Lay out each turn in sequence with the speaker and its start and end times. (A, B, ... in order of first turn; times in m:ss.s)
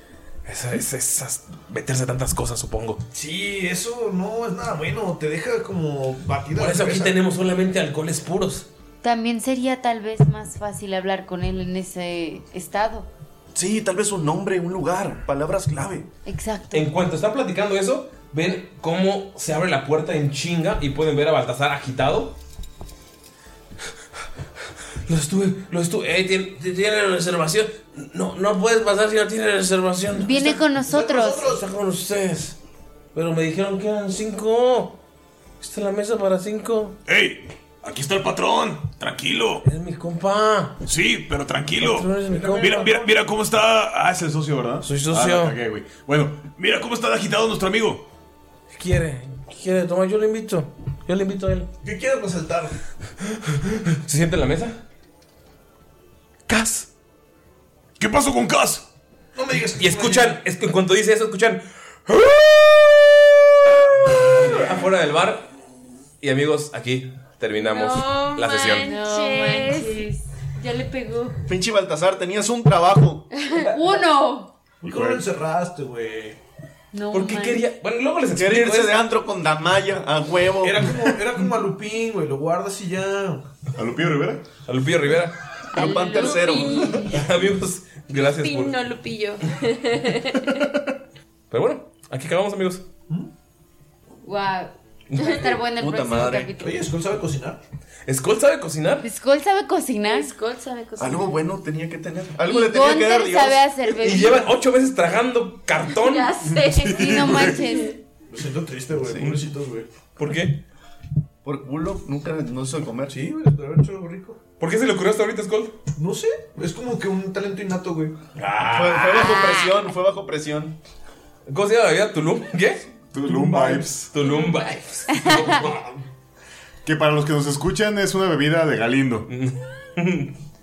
0:00.4-0:03.0 A
0:03.1-0:07.2 B
0:06.6-0:08.6 A
0:09.0-0:13.1 C
0:13.5-0:16.1 D
0:16.2-0:16.9 C
0:16.7-0:22.4 A
0:25.0-0:30.6 A
0:30.2-0:31.5 C
0:30.3-0:31.6 B
0:31.4-0:32.6 A
0:33.1-0:35.0 A
0:35.6-0:37.0 A
0:37.0-0:39.6 E
0:39.6-0:40.8 A
0:40.8-0:44.5 E
0:41.8-0:43.0 A
0:42.2-0:43.1 B
0:44.3-0:46.3 F
0:44.8-0:45.6 A
0:45.9-0:48.0 E
0:48.7-0:51.7 A
0:51.8-0:52.7 B
0:53.3-0:54.8 A
0:56.5-0:56.9 A
0:58.0-0:58.8 E
0:59.3-1:00.4 B
0:59.8-1:03.2 A
1:04.0-1:05.5 A
1:04.1-1:04.6 B
1:06.2-1:08.9 A
1:07.5-1:10.0 G
1:08.7-1:11.4 C
1:11.5-1:13.2 D
1:13.5-1:14.5 C
1:14.8-1:16.4 B
1:14.8-1:15.2 F
1:16.9-1:17.6 C
1:17.1-1:19.0 A
1:18.3-1:21.2 D
1:20.6-1:23.4 B
1:23.8-1:24.4 F
1:24.6-1:25.4 A
1:25.7-1:26.9 D
1:25.7-1:27.2 C
1:25.7-1:27.2 G
1:27.1-1:28.8 A
1:28.1-1:30.6 G
1:31.5-1:32.8 A
1:34.2-1:36.9 C
1:35.8-1:36.6 D
1:36.6-1:37.6 B
1:38.1-1:39.0 A
1:39.0-1:40.3 C
1:40.0-1:41.3 G
1:41.0-1:44.5 D
1:42.4-1:44.5 C
1:44.0-1:46.9 A
1:45.8-1:47.9 G
1:46.8-1:47.6 F
1:46.9-1:48.0 C
1:48.3-1:49.9 B
1:49.0-1:49.3 D
1:50.2-1:50.6 A
1:51.4-1:53.2 D
1:53.1-1:54.4 B
1:54.6-1:55.8 A
1:56.0-1:58.1 B
1:58.4-1:59.4 A
1:58.6-2:00.8 D
2:01.5-2:02.8 A
2:03.1-2:04.0 F
2:03.2-2:04.0 B
2:04.1-2:05.9 A
2:04.2-2:04.6 G
2:05.1-2:05.6 C
2:06.8-2:09.3 F
2:09.3-2:10.3 A